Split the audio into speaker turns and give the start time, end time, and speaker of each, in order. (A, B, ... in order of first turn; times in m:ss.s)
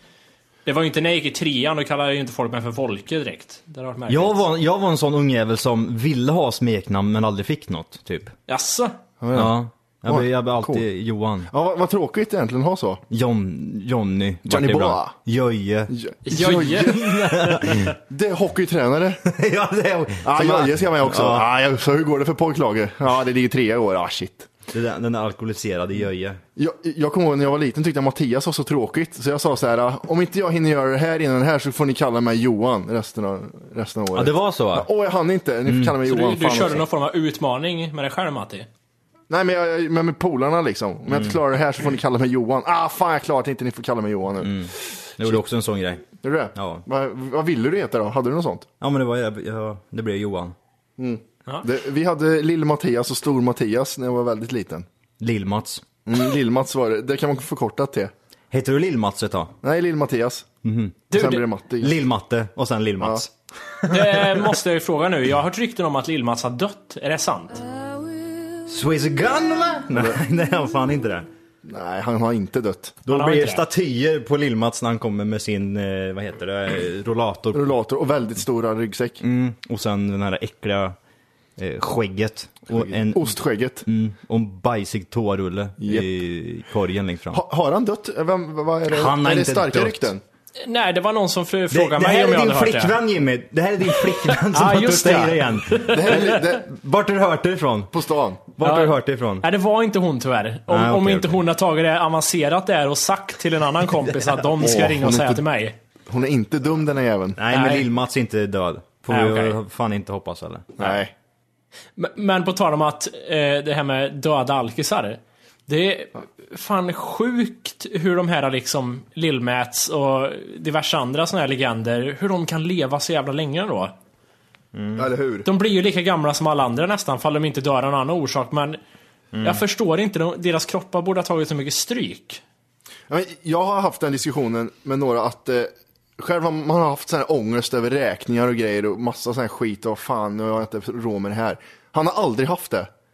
0:00.7-0:04.4 A
0:04.1-0:08.3 B
0:08.5-0:09.0 A
0:09.2-0:10.8 C
0:09.3-0:11.5 B
0:11.5-0:13.0 C
0:13.1-0:16.0 B
0:14.5-0:15.2 C
0:15.9-0:17.1 C
0:16.3-0:17.8 A
0:16.7-0:17.9 B
0:17.8-0:19.2 C
0:19.2-0:21.5 B
0:20.2-0:24.5 C
0:24.7-0:26.4 B
0:26.6-0:36.8 C
0:34.1-0:34.9 B
0:35.7-0:36.0 B
0:36.0-0:38.7 A
0:39.3-0:44.5 C
0:41.1-0:41.4 B
0:44.4-0:46.8 B
0:46.2-0:48.7 C
0:48.8-0:50.6 B
0:51.0-0:54.9 C
0:55.2-0:55.8 B
0:56.1-0:58.1 C
0:58.5-0:59.5 B
0:59.6-1:00.5 C
1:00.6-1:01.0 B
1:01.1-1:01.4 A
1:01.1-1:02.0 C
1:01.8-1:03.3 B
1:03.0-1:03.3 C
1:03.8-1:04.5 B
1:03.9-1:07.6 A
1:08.7-1:11.3 B
1:09.9-1:10.2 C
1:11.6-1:13.0 C
1:13.1-1:17.7 B
1:13.1-1:13.6 A
1:17.5-1:19.2 C
1:19.2-1:21.0 B
1:21.6-1:27.4 B
1:22.7-1:23.8 C
1:25.8-1:26.1 C
1:27.3-1:30.2 C
1:28.9-1:30.1 B
1:30.6-1:33.0 A
1:31.7-1:37.9 B
1:34.5-1:36.0 A
1:35.8-1:36.7 C
1:37.9-1:38.4 C
1:38.6-1:39.5 B
1:38.6-1:45.8 A
1:40.7-1:41.4 B
1:44.6-1:45.4 C
1:46.1-1:47.4 C
1:47.4-1:51.0 B
1:47.5-1:47.8 A
1:49.1-1:49.6 A
1:50.8-1:51.1 C
1:52.0-2:04.0 A
2:04.7-2:05.1 B
2:05.0-2:05.5 C
2:05.4-2:08.8 A
2:09.4-2:09.6 B
2:09.4-2:12.4 A
2:13.1-2:22.9 C